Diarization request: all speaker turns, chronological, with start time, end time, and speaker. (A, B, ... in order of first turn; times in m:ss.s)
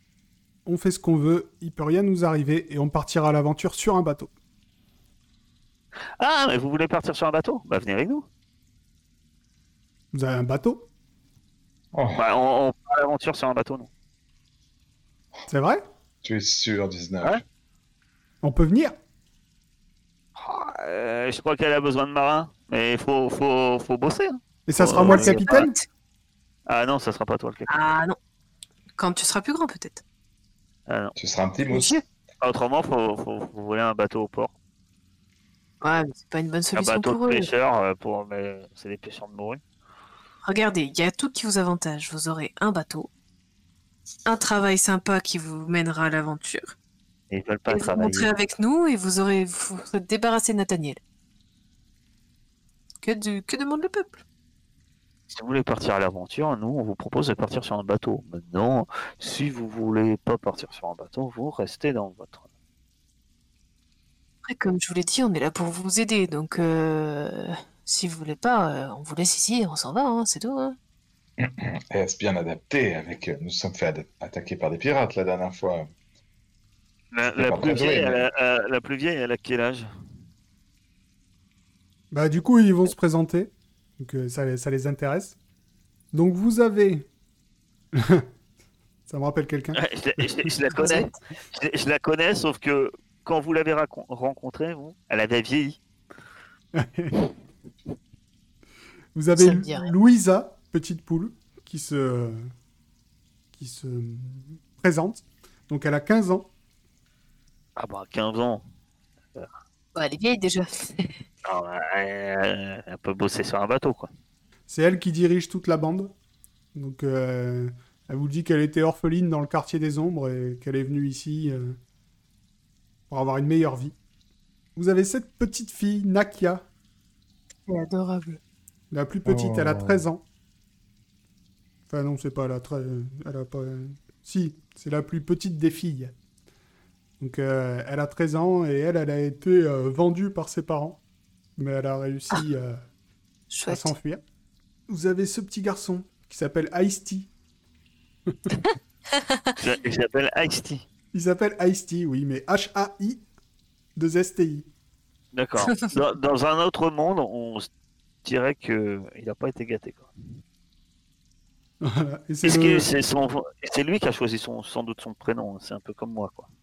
0:00.6-0:04.3 A
0:06.2-0:08.3 B
0:10.1-0:10.9 A
0:11.9-0:12.2 C
0:12.2-0:13.9 B
0:15.5-0:15.8 A
0:16.2-0:17.4 C
0:18.4-0:19.0 A
0:20.4-0:25.7 B
0:24.7-0:25.7 A
0:25.0-0:25.8 D
0:26.7-0:27.7 B
0:27.7-0:28.2 D
0:29.0-0:30.0 D
0:30.9-0:31.2 B
0:31.2-0:32.0 C
0:31.7-0:32.0 D
0:32.4-0:34.5 B
0:35.8-0:37.5 D
0:36.8-0:39.6 B
0:40.4-0:43.1 D
0:44.2-0:46.8 D
0:47.3-0:48.3 B
0:47.7-0:51.0 D
0:53.0-0:54.2 D
0:55.3-1:02.4 B
1:04.4-1:10.8 D
1:11.4-1:15.9 C
1:17.1-1:19.9 B
1:17.3-1:18.2 C
1:22.1-1:25.4 A
1:26.1-1:27.1 A
1:27.9-1:28.3 A
1:29.1-1:30.3 A
1:29.8-1:35.8 B
1:30.8-1:31.1 D
1:36.7-1:37.3 A
1:39.1-1:42.4 A
1:39.4-1:39.9 D
1:43.6-1:46.5 A
1:47.8-1:48.6 B
1:50.0-1:51.2 D
1:51.4-1:54.1 B
1:54.7-1:56.1 A
1:56.7-2:01.8 A
2:03.1-2:04.0 A
2:04.8-2:06.7 A
2:07.7-2:08.4 D
2:08.9-2:10.2 A
2:09.3-2:10.0 C
2:11.9-2:16.1 A
2:17.2-2:21.0 A
2:21.6-2:22.8 A
2:23.5-2:23.9 D
2:23.7-2:24.2 A
2:24.9-2:27.3 A
2:29.1-2:29.6 D
2:29.6-2:30.9 B
2:31.1-2:33.2 A
2:34.0-2:34.7 A
2:35.3-2:37.7 B
2:38.2-2:40.1 B
2:41.8-2:42.9 A
2:42.4-2:46.5 B